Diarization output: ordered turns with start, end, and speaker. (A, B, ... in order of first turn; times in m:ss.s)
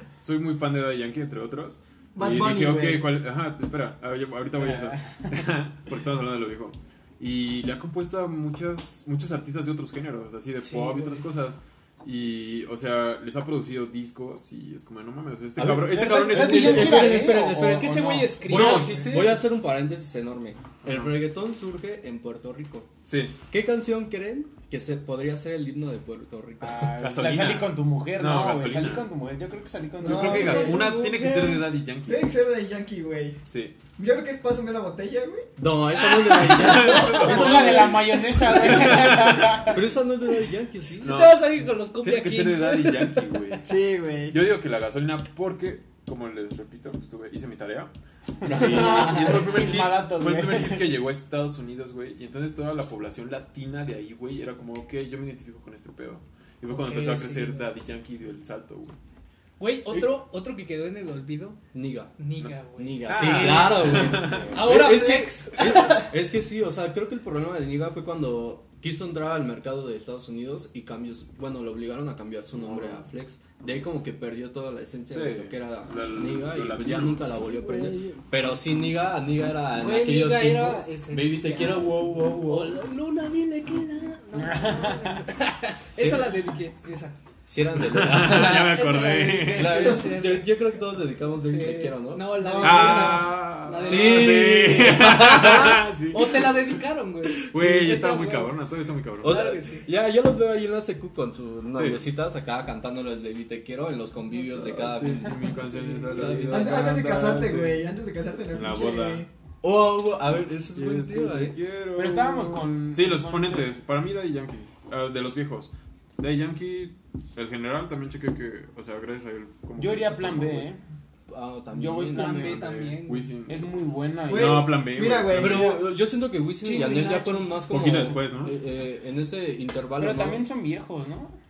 0:00.2-0:17.1 A
0:02.1-0:03.1 B
0:04.6-0:05.3 C
0:10.6-0:11.2 D
0:15.6-0:22.9 E
0:15.7-0:19.2 C
0:16.7-0:19.2 D
0:18.5-0:19.2 A
0:20.8-0:21.2 A
0:23.0-0:23.4 A
0:23.5-0:27.0 E
0:26.6-0:30.7 C
0:27.0-0:29.1 A
0:30.0-0:30.9 B
0:30.0-0:32.3 A
0:30.1-0:31.7 D
0:32.0-0:33.4 B
0:33.4-0:33.8 A
0:34.0-0:35.5 B
0:35.6-0:41.2 E
0:36.0-0:38.5 D
0:36.5-0:39.6 A
0:37.0-0:39.8 C
0:41.0-0:43.4 D
0:41.0-0:43.7 A
0:43.6-0:44.4 B
0:44.3-0:59.0 A
0:48.4-0:49.5 E
0:48.6-0:50.9 C
0:56.7-0:57.7 D
0:59.6-1:01.6 D
1:01.7-1:02.2 E
1:02.2-1:06.1 D
1:02.7-1:22.8 E
1:03.1-1:04.8 A
1:12.5-1:13.0 A
1:15.1-1:17.5 A
1:17.4-1:18.5 D
1:19.7-1:27.2 D
1:24.4-1:25.2 C
1:26.0-1:26.3 E
1:27.4-1:28.8 E
1:27.8-1:29.9 A
1:28.1-1:30.6 D
1:29.4-1:30.1 B
1:29.5-1:32.7 E
1:31.3-1:38.6 D
1:32.4-1:33.4 B
1:32.6-1:36.8 A
1:33.8-1:35.9 E
1:37.5-1:39.6 A
1:39.2-1:39.9 D
1:39.2-1:47.0 E
1:41.7-1:42.0 A
1:44.3-1:47.8 A
1:46.5-1:49.3 B
1:48.5-1:49.3 A
1:49.6-1:51.6 E
1:50.7-2:00.7 A
1:51.9-1:53.8 C
1:59.8-2:00.8 C
2:01.3-2:02.7 E
2:01.7-2:02.8 C
2:02.1-2:03.4 D
2:02.6-2:03.6 A
2:03.5-2:04.7 C
2:04.2-2:05.7 A
2:04.3-2:05.8 B
2:05.3-2:10.4 E
2:06.6-2:07.6 D
2:07.7-2:08.6 A
2:10.0-2:11.3 C